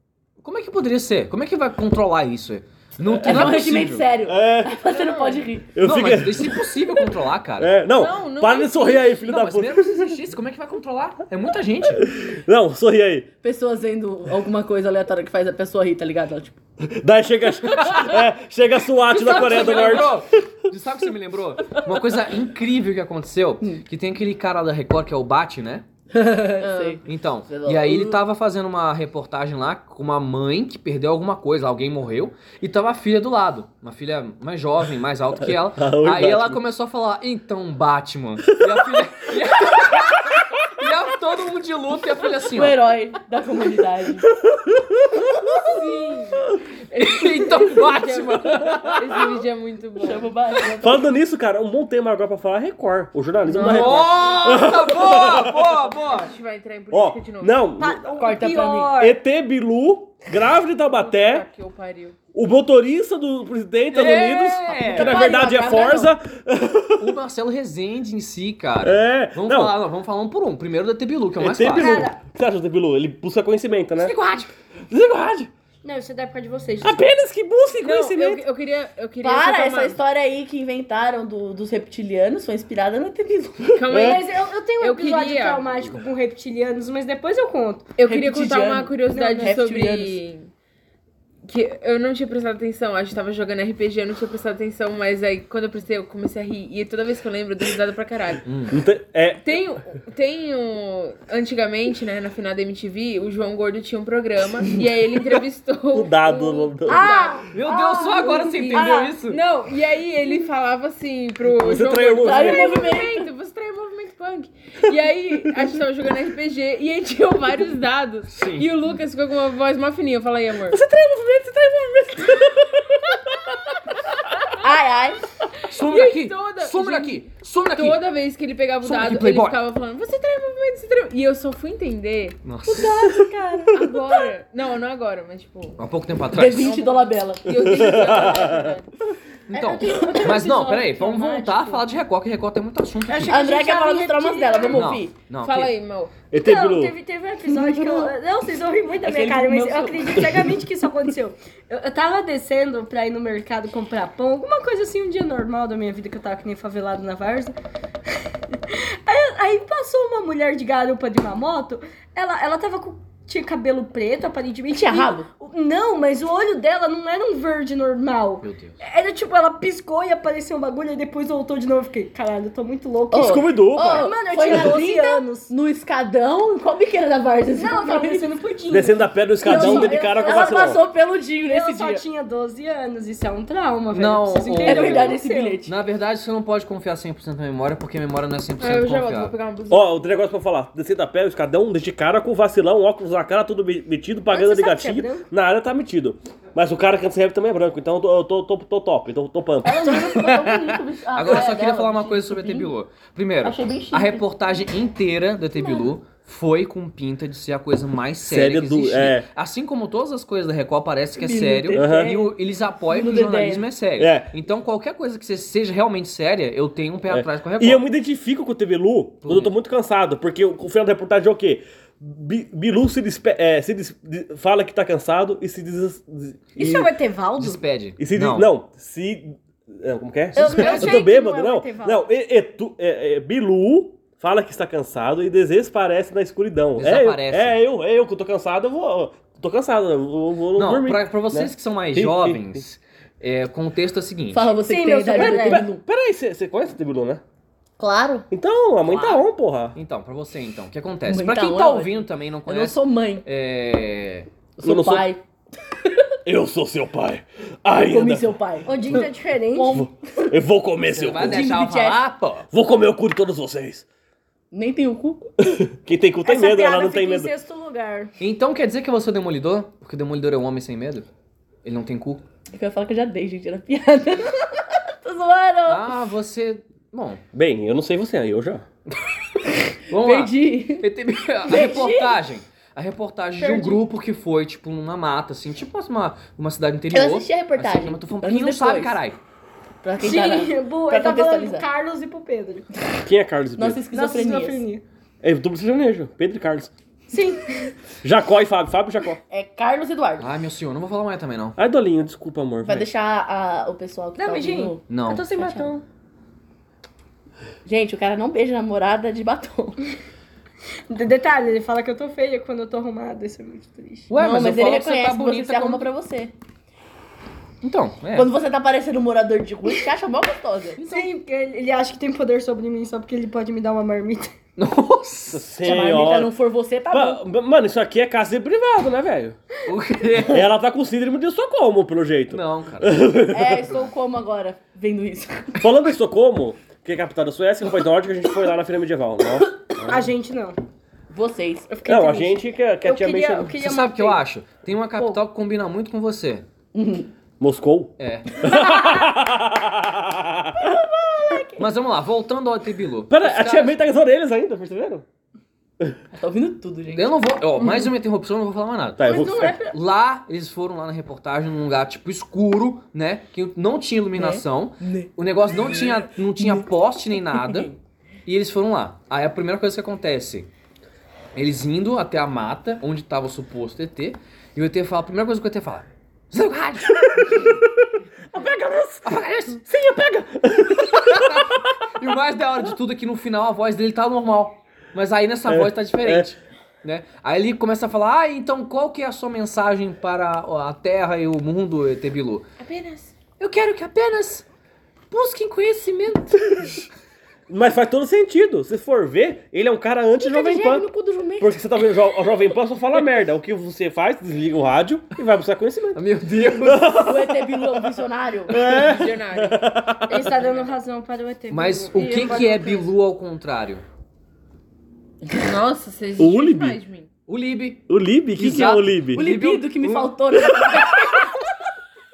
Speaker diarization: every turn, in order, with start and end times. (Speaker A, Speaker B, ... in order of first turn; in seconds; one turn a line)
Speaker A: 0.4-4.0
Speaker B: 3.0-3.5
Speaker C: 3.2-5.7
Speaker B: 4.2-4.8
Speaker D: 4.9-5.4
Speaker B: 5.7-6.7
Speaker A: 5.8-7.8
Speaker B: 7.6-10.2
Speaker D: 7.9-9.2
Speaker A: 9.2-12.0
Speaker B: 12.0-13.3
Speaker C: 13.4-16.6
Speaker B: 16.8-20.3
Speaker A: 19.1-25.9
Speaker C: 26.1-28.2
Speaker A: 27.0-42.8
Speaker B: 35.4-36.6
Speaker C: 42.5-44.3
Speaker B: 44.4-45.2
Speaker D: 45.6-50.3
Speaker A: 46.9-49.4
Speaker C: 50.0-51.0
Speaker B: 50.8-55.8
Speaker D: 53.5-54.5
Speaker A: 53.5-56.3
Speaker D: 55.9-57.7
Speaker B: 56.9-58.0
Speaker E: 57.8-59.2
Speaker C: 58.1-58.9
Speaker B: 58.9-61.5
Speaker D: 60.9-62.2
Speaker B: 62.3-67.2
Speaker A: 63.9-65.2
Speaker C: 64.9-66.1
Speaker A: 67.0-72.0
Speaker B: 68.8-69.7
Speaker B: 71.4-74.1
Speaker E: 71.8-72.2
Speaker A: 74.0-74.5
Speaker B: 74.9-75.5
Speaker E: 75.8-77.1
Speaker B: 76.8-78.4
Speaker D: 77.8-80.0
Speaker C: 79.2-83.8
Speaker B: 83.7-84.2
Speaker D: 83.7-85.9
Speaker E: 83.9-88.0
Speaker D: 88.0-90.5
Speaker C: 88.0-90.2
Speaker E: 89.1-89.6
Speaker D: 91.4-98.5
Speaker A: 98.4-98.8
Speaker B: 98.7-99.4
Speaker D: 99.4-107.5
Speaker B: 105.9-107.3
Speaker C: 106.9-109.1
Speaker A: 107.5-109.4
Speaker E: 108.1-108.8
Speaker D: 108.6-120.8
Speaker B: 111.5-112.9
Speaker C: 112.2-113.3
Speaker A: 118.3-118.7
Speaker B: 120.7-123.0
Speaker D: 124.4-124.6
Speaker C: 124.6-125.2
Speaker A: 125.6-128.0
Speaker D: 125.7-132.4
Speaker A: 128.8-129.6
Speaker A: 132.4-133.1
Speaker E: 132.7-133.7
Speaker D: 133.7-135.8
Speaker A: 135.8-136.8
Speaker C: 136.3-138.0
Speaker D: 136.6-138.9
Speaker B: 137.5-138.8
Speaker A: 139.5-143.5
Speaker C: 139.6-141.1
Speaker E: 139.9-141.7
Speaker E: 143.1-144.9
Speaker C: 143.2-145.1
Speaker A: 144.7-145.7
Speaker D: 145.4-146.2
Speaker B: 146.3-146.9
Speaker E: 146.3-157.5
Speaker C: 147.5-148.1
Speaker C: 149.0-150.5
Speaker E: 158.5-175.5
Speaker C: 164.7-165.3
Speaker A: 168.4-168.8
Speaker C: 173.1-178.3
Speaker B: 173.1-174.1
Speaker E: 177.5-180.9
Speaker B: 178.7-180.8
Speaker C: 179.4-182.0
Speaker E: 181.4-185.6
Speaker A: 183.9-189.3
Speaker C: 184.6-185.8
Speaker D: 188.6-190.0
Speaker B: 189.7-200.2
Speaker E: 194.3-195.3
Speaker C: 199.6-202.7
Speaker A: 200.3-217.9
Speaker C: 203.4-204.2
Speaker C: 205.6-205.8
Speaker B: 208.2-209.2
Speaker C: 211.2-213.7
Speaker B: 211.7-212.1
Speaker B: 214.0-214.3
Speaker B: 217.1-226.9
Speaker A: 219.2-219.5
Speaker E: 226.6-227.6
Speaker A: 227.4-228.5
Speaker B: 228.0-242.6
Speaker E: 230.3-232.1
Speaker A: 230.4-231.0
Speaker A: 236.8-237.6
Speaker A: 240.5-244.5
Speaker C: 244.3-245.8
Speaker E: 244.6-245.7
Speaker B: 245.1-247.2
Speaker C: 247.8-248.3
Speaker B: 248.3-249.8
Speaker A: 248.9-249.2
Speaker A: 249.7-254.3
Speaker C: 251.1-253.2
Speaker C: 254.6-255.2
Speaker B: 254.6-255.1
Speaker C: 255.8-256.1
Speaker B: 256.2-258.4
Speaker C: 257.8-260.3
Speaker E: 258.6-259.8
Speaker B: 259.7-261.5
Speaker A: 260.9-262.4
Speaker C: 261.1-262.0
Speaker B: 262.5-263.9
Speaker C: 264.5-265.3
Speaker B: 265.4-267.3
Speaker E: 266.2-268.1
Speaker A: 268.2-271.1
Speaker A: 271.6-272.2
Speaker C: 272.5-275.9
Speaker A: 275.7-277.2
Speaker B: 277.3-278.6
Speaker C: 279.9-280.9
Speaker A: 279.9-289.2
Speaker C: 281.4-282.2
Speaker C: 283.4-283.7
Speaker C: 286.9-289.0
Speaker C: 289.8-291.6
Speaker E: 290.0-292.6
Speaker B: 293.0-293.8
Speaker C: 293.6-294.6
Speaker E: 293.9-294.8
Speaker B: 295.2-296.7
Speaker E: 297.1-297.7
Speaker B: 298.0-299.2
Speaker C: 299.3-300.3
Speaker A: 300.2-301.6
Speaker B: 301.6-302.9
Speaker C: 302.6-305.7
Speaker E: 304.2-305.8
Speaker A: 304.9-305.4
Speaker C: 307.6-309.8
Speaker E: 310.9-314.1
Speaker A: 314.1-315.9
Speaker C: 314.1-316.3
Speaker A: 317.6-318.3
Speaker C: 318.1-320.9
Speaker E: 320.8-324.3
Speaker A: 320.8-321.1
Speaker A: 324.6-325.5
Speaker B: 325.3-326.3
Speaker C: 325.6-327.2
Speaker B: 326.9-329.4
Speaker A: 329.7-330.4
Speaker B: 330.3-333.7
Speaker A: 332.3-333.1
Speaker C: 333.3-335.6
Speaker B: 335.6-339.9
Speaker E: 339.8-340.6
Speaker C: 341.1-341.7
Speaker E: 341.7-344.2
Speaker B: 341.9-343.6
Speaker A: 343.6-346.4
Speaker C: 346.7-347.1
Speaker B: 347.4-350.6
Speaker A: 348.0-348.4
Speaker C: 350.6-351.6
Speaker A: 351.6-353.8
Speaker B: 353.1-355.0
Speaker C: 356.1-357.9
Speaker A: 356.9-367.7
Speaker B: 359.0-359.6
Speaker C: 359.0-359.7
Speaker C: 364.1-365.1
Speaker C: 366.4-366.7
Speaker C: 367.3-367.7
Speaker A: 368.2-370.5
Speaker A: 371.3-377.5
Speaker B: 377.3-377.6
Speaker B: 378.3-381.7
Speaker A: 379.0-392.5
Speaker B: 385.5-386.3
Speaker D: 392.6-393.1
Speaker A: 393.4-394.4
Speaker A: 395.1-396.6
Speaker B: 397.5-400.9
Speaker C: 400.2-401.6
Speaker B: 401.4-406.0
Speaker A: 405.9-407.3
Speaker B: 406.6-407.2
Speaker C: 406.9-408.6
Speaker B: 408.5-410.4
Speaker D: 408.6-409.7
Speaker E: 410.1-412.8
Speaker D: 410.3-410.7
Speaker A: 411.5-413.8
Speaker D: 412.0-412.6
Speaker D: 415.3-417.1
Speaker B: 416.2-416.8
Speaker A: 417.3-417.8
Speaker B: 417.9-419.2
Speaker A: 418.3-420.3
Speaker C: 419.1-421.3